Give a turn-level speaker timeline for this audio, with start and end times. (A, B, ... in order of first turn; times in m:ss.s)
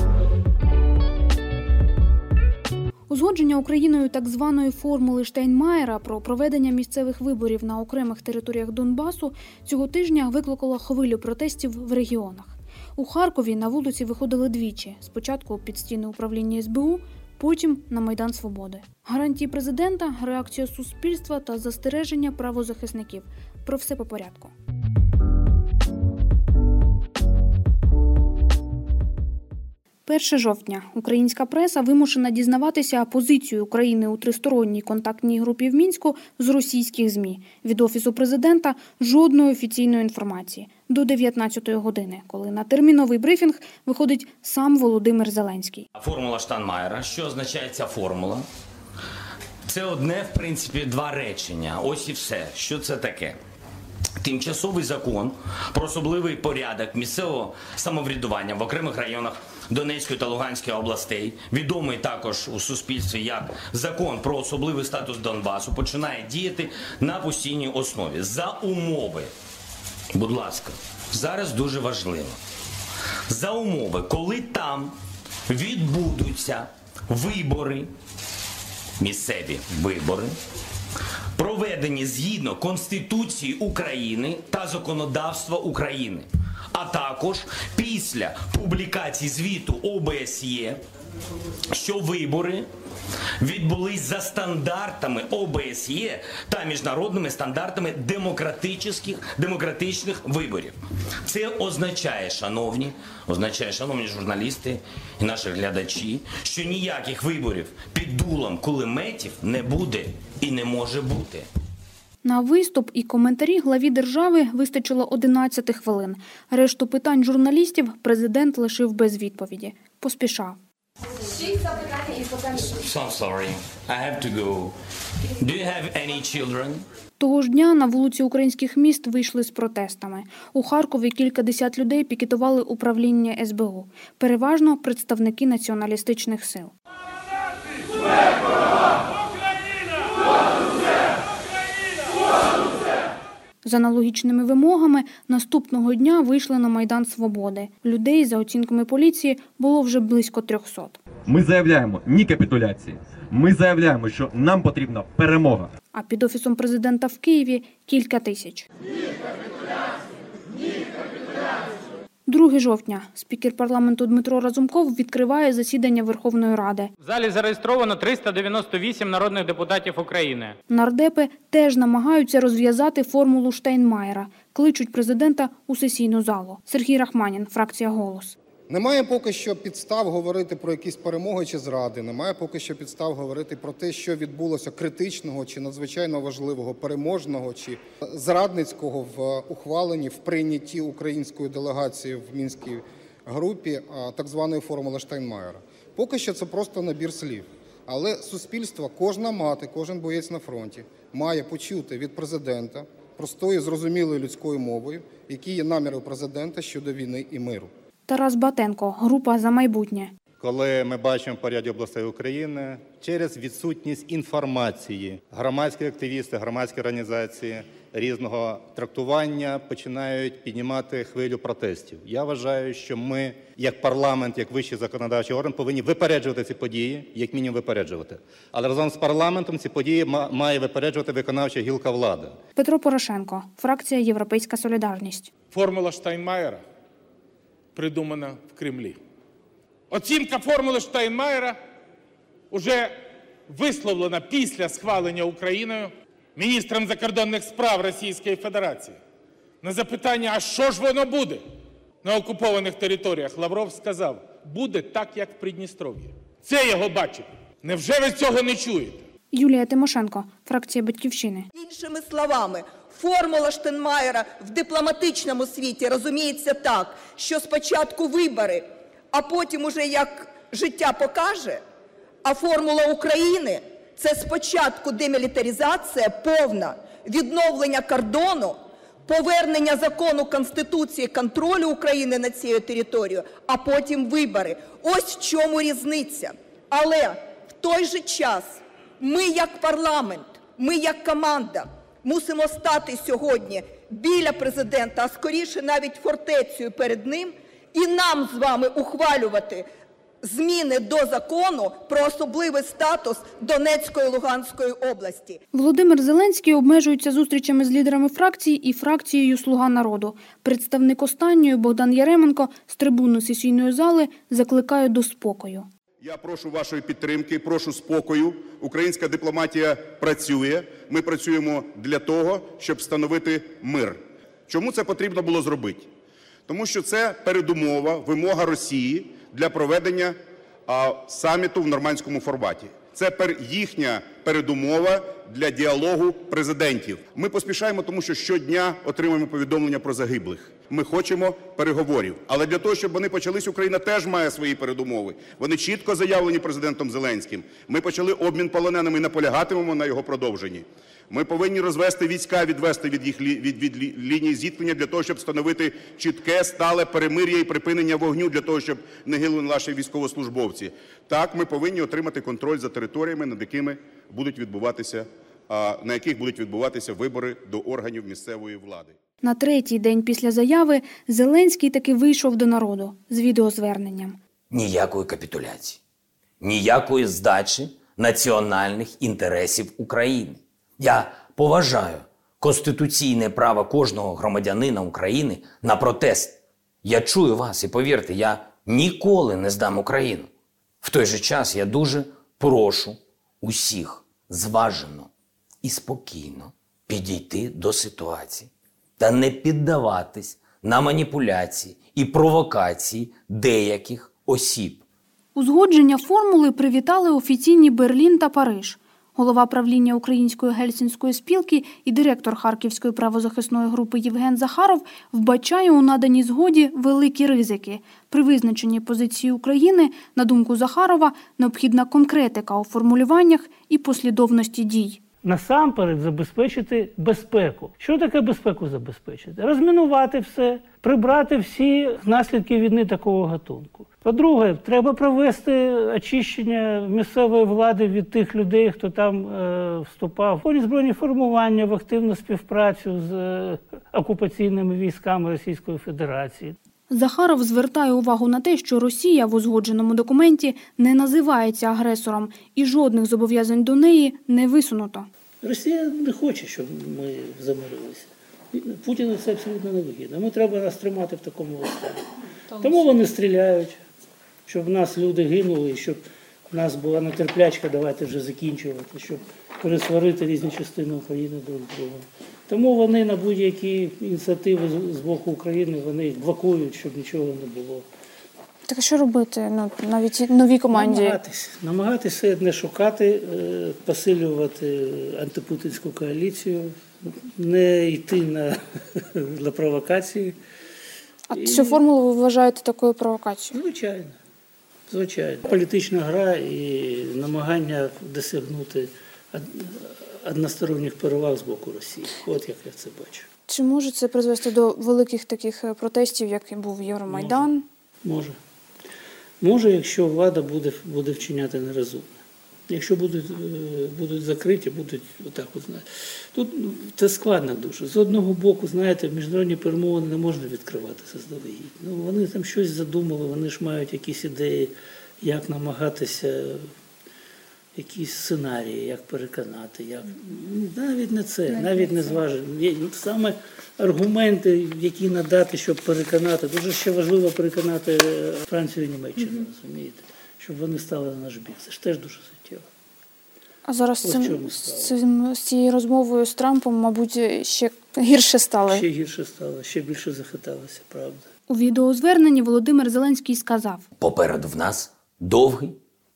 0:03.1-0:24.5 A
0:30.0-0:45.9 A
0:46.0-0:48.4 B
0:49.6-0:53.4 B
0:54.2-1:09.3 B
1:10.1-1:12.4 B
1:13.3-1:14.9 B
1:15.5-1:17.9 B
1:19.0-1:20.3 B
1:21.4-1:30.8 B
1:31.7-1:32.7 B
1:33.4-1:51.5 B
1:52.2-2:00.6 A
2:01.8-2:04.7 B
2:05.4-2:06.8 B
2:07.2-2:16.7 A
2:23.6-2:31.0 A
2:31.3-2:35.7 C
2:35.9-2:38.6 A
2:42.3-2:46.9 A
2:47.0-2:50.6 D
2:50.7-2:58.3 A
2:58.7-3:27.7 E
3:28.1-3:30.1 A
3:30.4-3:52.3 F
3:52.6-3:55.3 A
3:55.5-3:56.6 G
3:57.7-3:59.0 G
3:59.9-4:01.6 G
4:02.5-4:03.0 G
4:03.5-4:09.0 G
4:09.6-4:11.4 G
4:12.0-4:19.0 G
4:19.3-4:21.5 A
4:21.5-4:31.6 H
4:32.2-4:59.7 H
5:00.2-5:05.4 H
5:05.5-5:15.7 A
5:16.0-5:25.9 I
5:26.5-6:09.0 I
6:09.2-6:14.2 A
6:14.5-6:15.8 B
6:16.4-6:30.3 B
6:30.8-6:35.1 B
6:35.6-6:44.8 B
6:45.3-7:05.0 A
7:05.2-7:26.6 J
7:26.9-7:35.1 A
7:35.4-7:42.0 J
7:42.6-7:43.8 J
7:44.5-7:57.8 J
7:58.7-8:01.2 A
8:00.7-8:10.4 J
8:11.3-8:13.6 A
8:11.4-8:11.8 J
8:13.5-8:14.2 J
8:14.9-8:23.3 J
8:23.5-8:27.6 A
8:27.1-8:27.5 J
8:28.0-8:28.4 J
8:29.4-8:46.7 J
8:47.8-9:02.6 J
8:51.5-8:52.2 A
9:03.6-9:08.8 A
9:04.0-9:05.0 J
9:08.7-9:11.2 J
9:11.5-9:13.8 A
9:14.0-9:15.8 B